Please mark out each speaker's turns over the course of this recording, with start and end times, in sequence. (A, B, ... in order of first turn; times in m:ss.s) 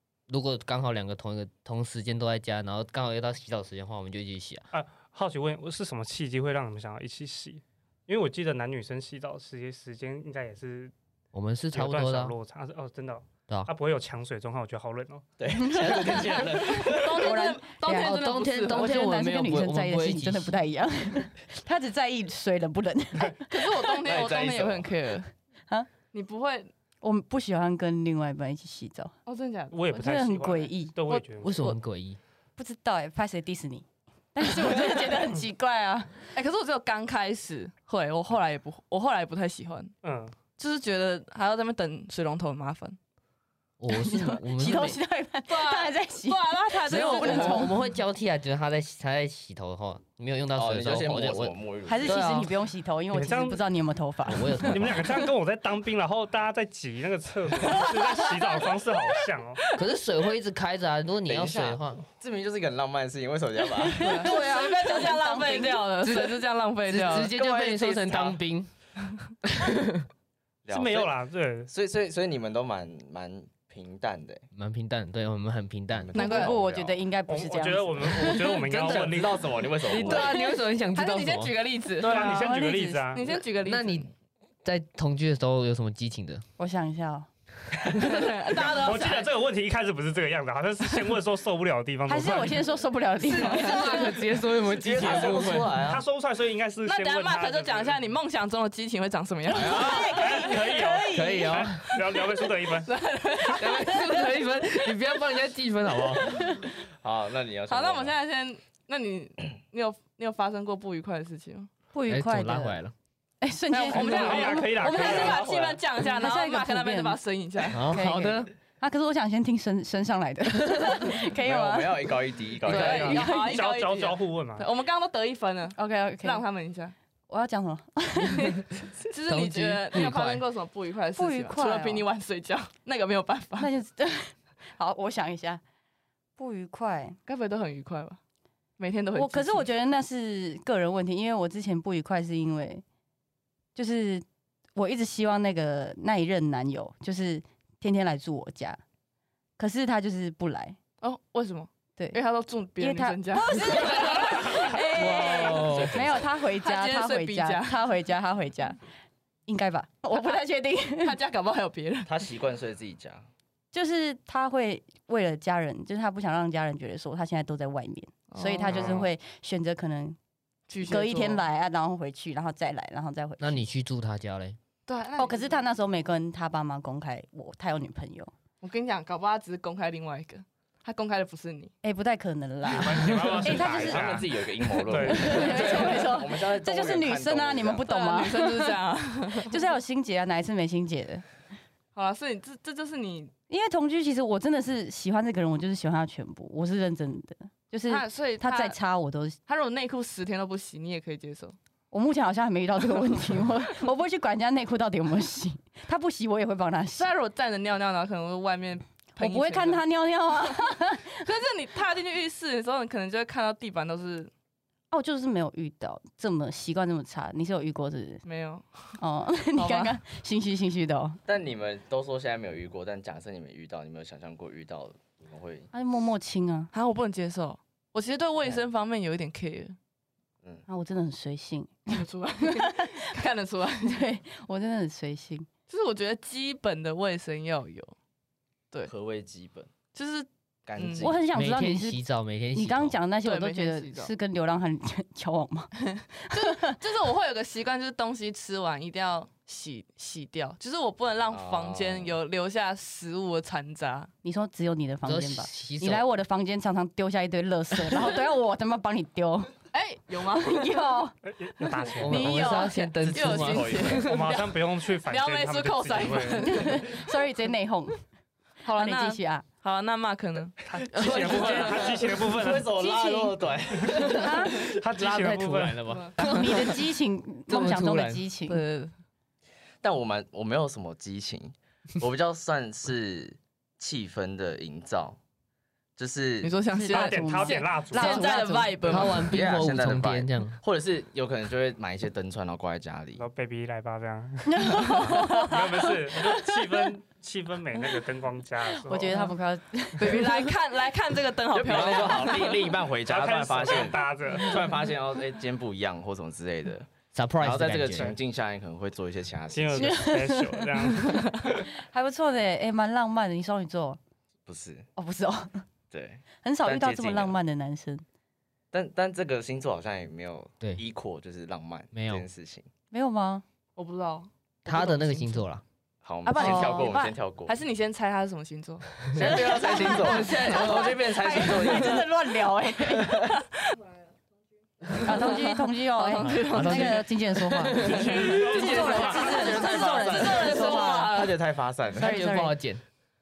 0:00.3-0:04.6 A
0:04.7-0:10.9 B
0:11.3-0:12.4 A
0:11.7-0:15.2 B
0:15.4-0:17.4 C
0:15.6-0:23.9 D
0:16.4-0:19.0 E
0:17.9-0:20.6 A
0:23.5-0:25.3 E
0:24.0-0:24.9 C
0:26.1-0:26.7 E
0:27.0-0:29.1 D
0:29.3-0:29.8 E
0:29.7-0:31.7 B
0:29.9-0:31.0 D
0:31.1-0:31.8 E
0:31.4-0:32.2 A
0:32.6-0:36.2 D
0:36.3-0:40.0 E
0:40.0-0:40.4 B
0:40.6-0:43.0 E
0:43.8-0:45.0 A
0:43.9-0:47.8 D
0:45.5-0:47.7 E
0:46.9-0:52.5 A
0:50.5-0:52.2 C
0:51.9-0:55.0 D
0:53.1-0:53.6 B
0:54.3-0:55.2 A
0:54.7-0:59.7 B
0:59.7-1:02.0 A
1:01.3-1:04.3 C
1:03.8-1:05.9 D
1:04.0-1:07.3 E
1:06.0-1:08.7 A
1:07.3-1:08.4 C
1:09.5-1:10.1 A
1:10.7-1:11.1 C
1:10.7-1:11.7 B
1:11.7-1:14.5 C
1:14.5-1:16.1 A
1:15.9-1:17.0 C
1:16.2-1:16.6 E
1:16.2-1:18.6 D
1:17.3-1:19.5 B
1:18.6-1:20.4 C
1:18.7-1:19.1 A
1:19.8-1:21.5 A
1:20.0-1:22.4 E
1:22.0-1:23.3 B
1:22.0-1:23.2 D
1:23.1-1:24.1 E
1:23.6-1:24.1 A
1:24.6-1:26.4 A
1:26.6-1:27.3 D
1:28.0-1:29.3 E
1:28.6-1:32.7 B
1:32.1-1:34.1 D
1:33.2-1:35.7 A
1:33.3-1:34.2 E
1:34.6-1:36.0 C
1:35.1-1:38.0 B
1:36.9-1:40.6 E
1:39.5-1:40.4 C
1:39.7-1:41.4 D
1:39.9-1:43.0 B
1:41.1-1:41.9 A
1:42.9-1:44.3 E
1:43.5-1:46.6 A
1:47.0-1:48.2 C
1:47.7-1:51.7 E
1:51.9-1:52.8 D
1:52.1-1:52.9 A
1:53.4-1:55.5 D
1:53.7-1:57.8 E
1:53.9-1:55.5 B
1:55.1-1:55.8 C
1:56.1-1:57.2 D
1:57.7-1:58.5 A
1:57.9-2:02.2 D
2:01.4-2:03.2 C
2:02.6-2:06.9 E
2:02.7-2:04.7 B
2:05.8-2:06.4 D
2:07.3-2:08.7 D
2:09.1-2:13.7 E
2:09.3-2:10.4 A
2:11.2-2:12.1 D
2:13.6-2:15.6 D
2:16.4-2:17.2 D
2:17.3-2:18.2 E
2:18.8-2:19.7 E
2:19.2-2:22.8 D
2:23.8-2:24.2 D
2:24.8-2:28.8 D
2:29.6-2:30.8 D
2:31.0-2:35.7 E
2:32.8-2:38.8 D
2:34.9-2:36.0 A
2:35.6-2:36.3 C
2:36.6-2:37.8 E
2:39.5-2:41.2 D
2:40.1-2:40.4 E
2:40.9-2:42.1 E
2:42.1-2:43.3 C
2:43.7-2:50.2 D
2:48.3-2:49.0 E
2:48.8-2:49.0 B
2:50.7-2:51.4 E
2:50.8-2:53.6 D
2:53.4-2:54.6 A
2:54.9-2:55.6 E
2:55.2-2:58.3 D
2:58.6-3:01.7 E
3:01.8-3:08.8 D
3:02.7-3:05.9 B
3:03.4-3:07.9 C
3:05.5-3:06.2 E
3:07.9-3:09.6 E
3:09.4-3:11.2 D
3:12.0-3:13.3 E
3:13.5-3:19.4 D
3:17.9-3:18.8 E
3:19.5-3:21.6 E
3:21.9-3:27.1 D
3:27.0-3:29.8 E
3:29.2-3:31.3 D
3:30.6-3:34.3 E
3:34.9-3:38.2 D
3:38.2-3:39.0 E
3:39.0-3:41.2 D
3:39.6-3:40.0 E
3:41.3-3:45.7 C
3:45.7-3:46.7 D
3:46.7-3:49.8 E
3:50.7-3:53.1 D
3:51.9-3:54.0 E
3:53.8-3:55.5 D
3:55.7-3:58.0 E
3:58.9-3:59.7 C
3:59.9-4:01.2 E
4:00.7-4:01.2 C
4:01.0-4:02.0 D
4:01.3-4:03.0 A
4:02.5-4:05.7 D
4:03.2-4:04.1 E
4:05.9-4:14.1 E
4:06.3-4:06.8 D
4:11.3-4:12.2 C
4:14.2-4:19.5 D
4:15.1-4:16.0 A
4:19.7-4:21.0 E
4:20.4-4:21.2 D
4:21.3-4:22.5 B
4:22.0-4:24.2 A
4:22.1-4:27.0 E
4:22.1-4:22.8 D
4:23.0-4:24.1 C
4:23.9-4:26.8 B
4:26.4-4:28.0 D
4:28.6-4:29.4 D
4:28.7-4:30.6 E
4:30.7-4:32.8 B
4:30.7-4:34.7 C
4:30.9-4:32.0 A
4:32.8-4:33.3 D
4:34.1-4:34.6 D
4:34.8-4:36.0 B
4:35.0-4:36.8 A
4:35.9-4:36.1 E
4:36.2-4:38.6 D
4:37.5-4:38.2 A
4:38.5-4:38.9 E
4:39.8-4:45.2 C
4:46.0-4:46.5 C
4:46.4-4:49.3 E
4:46.7-4:49.0 D
4:46.9-4:48.4 B
4:48.9-4:50.6 A
4:49.2-4:53.2 C
4:53.2-4:59.3 B
4:54.5-4:56.4 D
4:58.8-5:00.5 D
5:00.0-5:02.6 E
5:01.5-5:06.9 C
5:03.0-5:04.8 B
5:07.1-5:08.2 A
5:07.4-5:09.9 C
5:09.5-5:11.5 B
5:09.7-5:14.0 D
5:14.5-5:14.9 C
5:15.0-5:15.6 D
5:15.9-5:17.3 C
5:16.4-5:18.0 D
5:18.7-5:22.7 C
5:21.9-5:22.3 A
5:22.9-5:23.4 D
5:23.8-5:25.4 E
5:24.7-5:25.6 A
5:26.0-5:27.6 C
5:26.2-5:30.9 E
5:26.4-5:26.9 D
5:29.1-5:32.1 C
5:29.2-5:30.9 A
5:29.2-5:33.2 D
5:33.4-5:33.8 E
5:35.0-5:37.0 E
5:35.0-5:41.2 D
5:36.2-5:38.6 A
5:37.8-5:39.9 B
5:38.1-5:42.1 C
5:38.3-5:41.4 E
5:42.0-5:42.6 D
5:42.0-5:42.8 A